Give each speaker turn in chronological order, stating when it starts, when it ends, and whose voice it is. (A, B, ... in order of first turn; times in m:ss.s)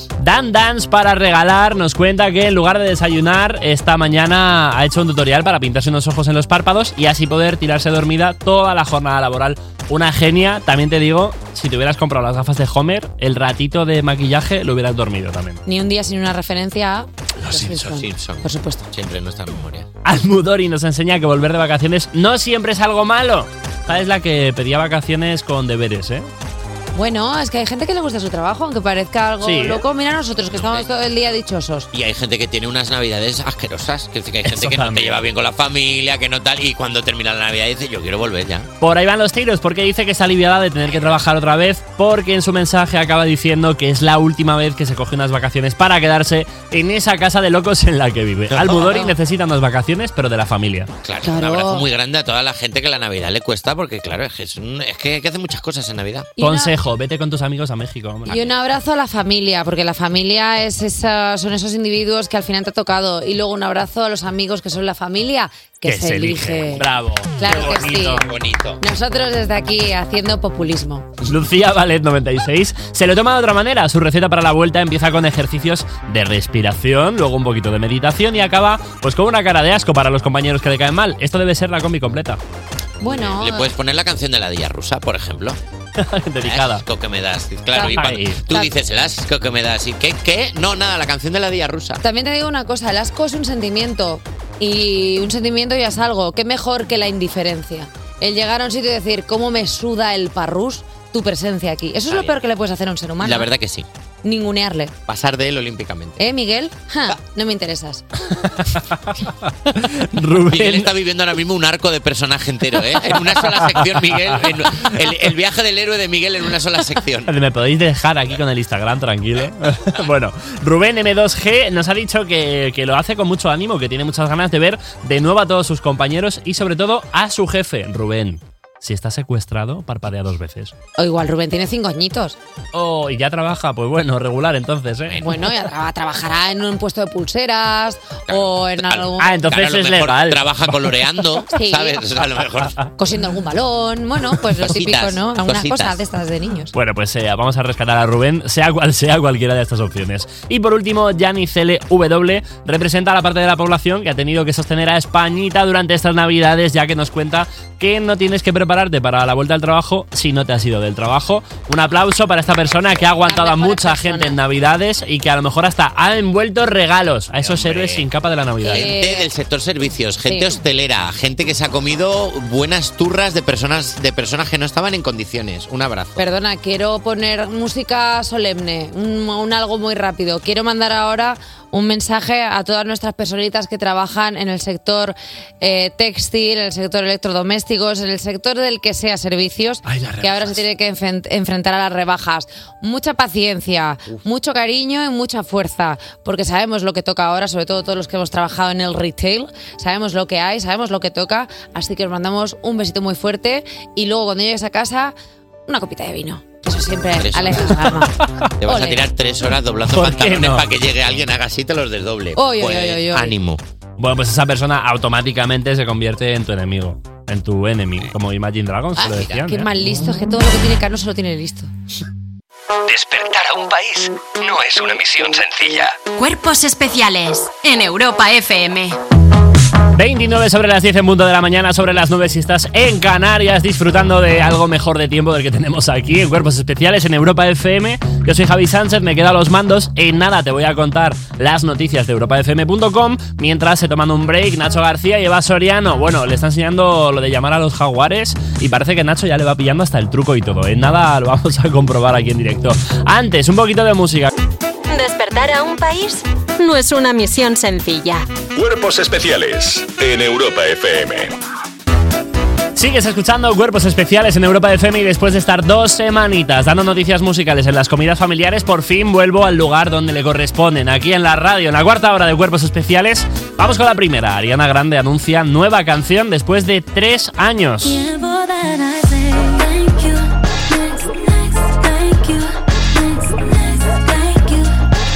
0:00.2-0:15.6 A
0:15.7-0:18.9 B
0:17.4-0:17.8 A
0:17.5-0:19.9 C
0:20.0-0:26.3 A
0:27.0-0:31.9 B
0:29.4-0:29.8 A
0:30.5-0:30.8 C
0:31.9-0:38.7 C
0:34.4-0:35.2 A
0:38.8-0:50.9 A
0:48.5-0:49.0 C
0:48.7-0:49.1 B
0:51.0-0:56.3 C
0:51.2-0:51.8 B
0:56.4-0:56.7 B
0:56.4-0:58.4 A
0:58.2-0:58.5 C
0:58.3-1:08.3 B
1:05.8-1:08.2 A
1:07.5-1:08.8 C
1:08.8-1:11.1 B
1:11.2-1:22.4 A
1:23.0-1:23.7 B
1:23.0-1:25.6 C
1:26.0-1:26.8 A
1:26.4-1:32.0 C
1:27.8-1:28.4 A
1:32.0-1:43.5 B
1:42.1-1:42.4 C
1:43.2-1:43.9 C
1:44.2-1:44.9 B
1:45.1-1:46.2 C
1:46.2-1:48.0 B
1:48.4-1:50.9 A
1:50.5-1:57.3 C
1:57.3-2:10.7 A
2:11.0-2:12.4 B
2:12.7-2:15.2 A
2:15.1-2:15.5 C
2:15.2-2:19.4 B
2:18.3-2:22.8 C
2:19.2-2:21.0 A
2:21.5-2:22.0 B
2:23.0-2:26.7 B
2:24.5-2:26.0 C
2:26.7-2:48.9 A
2:43.1-2:44.4 B
2:47.4-2:48.1 C
2:48.6-2:49.3 B
2:48.6-2:56.2 C
2:50.3-2:50.5 B
2:56.2-3:25.1 B
3:09.9-3:10.6 A
3:25.7-3:28.1 B
3:27.2-3:33.6 C
3:28.7-3:29.0 B
3:29.9-3:30.7 A
3:32.4-3:33.4 B
3:34.0-3:39.7 A
3:39.0-3:39.4 C
3:39.0-3:41.7 B
3:42.9-3:46.0 D
3:46.1-3:49.0 E
3:50.0-4:14.3 A
4:14.9-4:18.3 E
4:18.6-4:21.4 F
4:22.8-4:38.1 A
4:38.1-4:40.2 E
4:41.8-4:42.5 E
4:44.1-4:44.6 E